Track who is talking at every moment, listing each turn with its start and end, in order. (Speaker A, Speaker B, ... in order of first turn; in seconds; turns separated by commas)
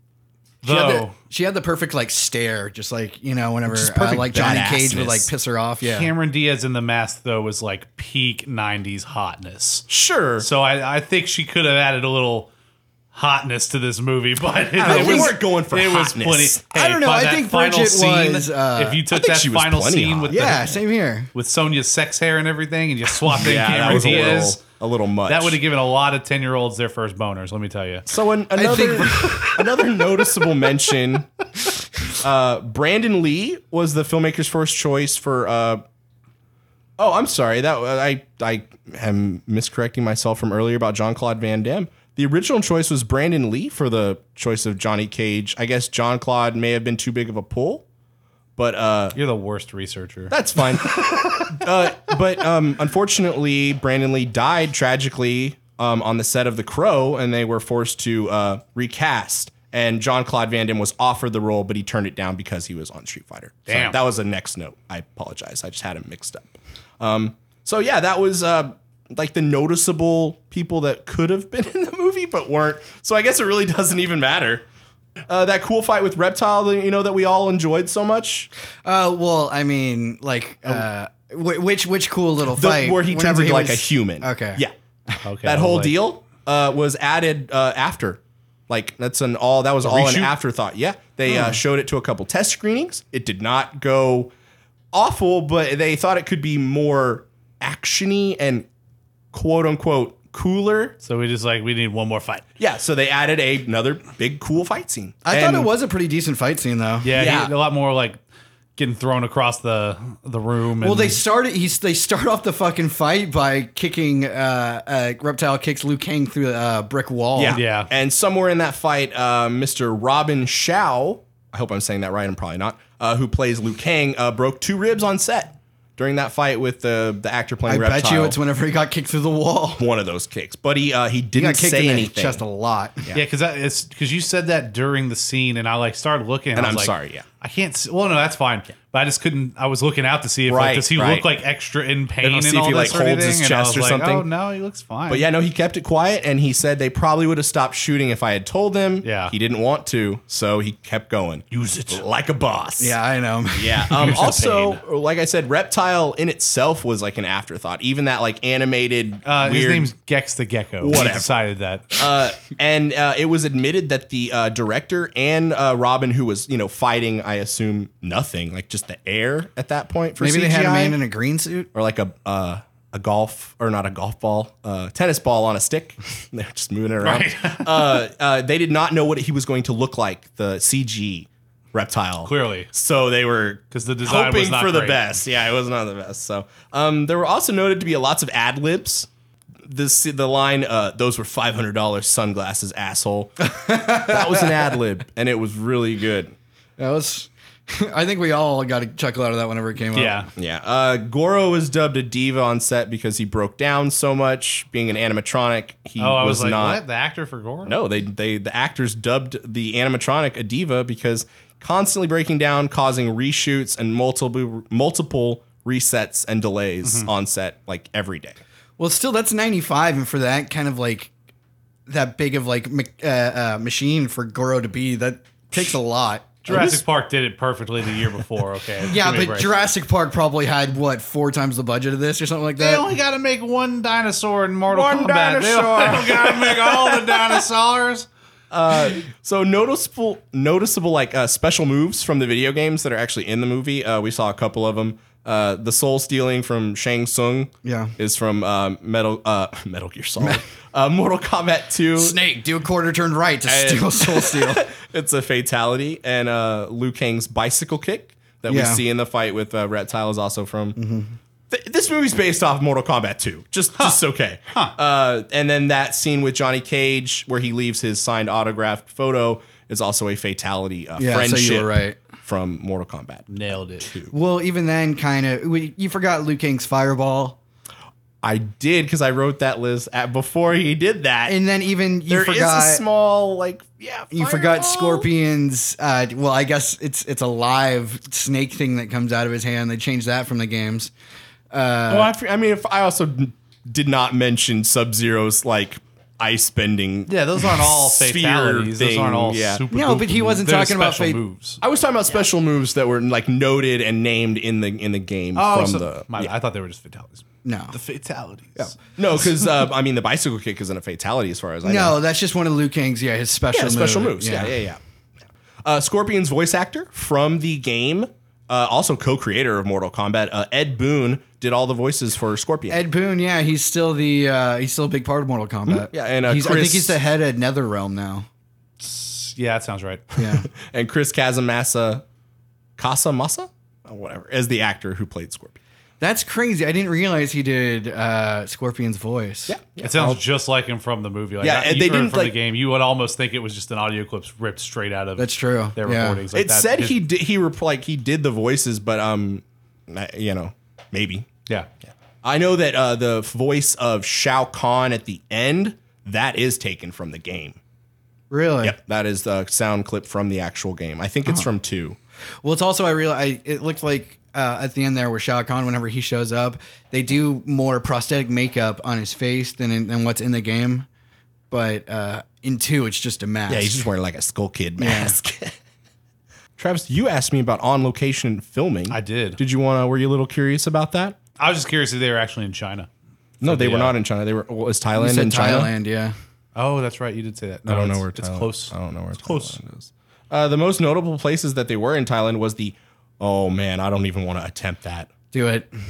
Speaker A: 0.6-1.1, Speaker B: 0.6-6.1, Speaker C: 3.7-5.3, Speaker A: 5.8-9.9, Speaker C: 9.9-10.5, Speaker A: 10.4-12.5, Speaker A: 13.1-20.8, Speaker C: 14.8-16.6, Speaker B: 14.8-15.3, Speaker B: 16.7-19.0, Speaker C: 19.1-20.7, Speaker B: 20.3-21.3, Speaker A: 21.4-24.6, Speaker C: 23.4-25.6, Speaker A: 25.3-28.1, Speaker C: 28.1-31.3, Speaker B: 28.6-30.4, Speaker C: 32.1-35.8, Speaker C: 37.0-47.9, Speaker C: 48.6-49.2, Speaker A: 49.1-50.4, Speaker C: 50.3-74.7, Speaker A: 63.7-64.0, Speaker C: 75.3-78.5, Speaker B: 78.8-85.2, Speaker C: 82.5-84.7, Speaker A: 85.2-85.9, Speaker C: 85.4-94.3, Speaker A: 89.8-90.3, Speaker A: 91.3-91.6, Speaker C: 94.9-98.7, Speaker C: 99.3-101.0, Speaker A: 101.0-102.5, Speaker C: 102.6-105.7, Speaker B: 105.2-107.1, Speaker A: 107.0-108.2, Speaker C: 107.1-107.5, Speaker A: 108.8-111.2, Speaker B: 110.8-117.6, Speaker C: 117.3-128.4, Speaker A: 117.5-117.9, Speaker B: 127.7-129.8, Speaker C: 129.8-132.4, Speaker B: 131.3-133.1, Speaker A: 133.1-145.3, Speaker C: 136.6-137.3, Speaker C: 140.5-141.3, Speaker C: 142.2-144.3, Speaker C: 145.1-153.0, Speaker A: 149.0-149.3, Speaker A: 151.5-152.0, Speaker B: 152.8-154.2, Speaker C: 153.6-159.9, Speaker A: 154.0-154.8, Speaker A: 159.2-162.0, Speaker C: 160.8-161.3, Speaker C: 161.9-171.0, Speaker B: 170.2-171.7, Speaker C: 171.7-189.1, Speaker A: 177.0-178.0, Speaker A: 182.2-182.7, Speaker A: 183.7-185.2, Speaker C: 189.7-196.3, Speaker B: 193.4-194.8, Speaker B: 196.8-200.3, Speaker A: 199.9-200.3, Speaker C: 200.4-206.8, Speaker A: 206.0-207.8, Speaker C: 207.7-218.4, Speaker A: 216.8-217.1, Speaker B: 218.8-221.1, Speaker B: 221.9-226.8, Speaker A: 226.4-229.5, Speaker B: 228.8-232.9, Speaker A: 232.6-238.1, Speaker C: 234.7-237.4, Speaker C: 238.5-252.2, Speaker B: 247.6-247.9, Speaker B: 252.0-254.7, Speaker C: 253.5-260.8, Speaker B: 258.5-258.8, Speaker B: 260.8-261.2, Speaker C: 261.5-274.1, Speaker B: 271.0-272.0, Speaker A: 273.3-273.9, Speaker B: 274.1-277.4, Speaker C: 278.2-281.4, Speaker B: 281.3-282.8, Speaker C: 282.1-285.1, Speaker B: 284.1-290.9, Speaker B: 291.5-292.1, Speaker C: 291.9-299.6, Speaker A: 297.1-301.6, Speaker B: 299.7-301.2, Speaker C: 301.6-306.3, Speaker A: 305.4-309.4, Speaker B: 307.4-307.8, Speaker C: 308.6-312.0, Speaker B: 311.6-314.6, Speaker C: 313.5-314.8, Speaker C: 315.6-322.8, Speaker B: 322.7-328.3, Speaker C: 325.7-327.0, Speaker A: 328.8-330.1, Speaker B: 330.2-330.5, Speaker C: 330.5-332.0, Speaker C: 332.8-335.6, Speaker B: 336.0-339.6, Speaker C: 339.5-340.2, Speaker A: 339.8-347.0, Speaker C: 341.4-342.4, Speaker B: 345.2-346.2, Speaker C: 346.3-351.3, Speaker C: 352.2-357.6, Speaker B: 358.3-358.8, Speaker C: 358.6-362.0, Speaker B: 362.4-370.9, Speaker B: 371.5-373.9, Speaker C: 373.5-375.6, Speaker B: 374.8-375.2, Speaker C: 376.6-381.2, Speaker A: 378.9-379.4, Speaker A: 381.4-382.9, Speaker C: 383.4-385.7, Speaker A: 383.4-384.0, Speaker B: 385.0-386.1, Speaker A: 386.6-389.6, Speaker C: 387.7-395.1, Speaker B: 395.3-395.7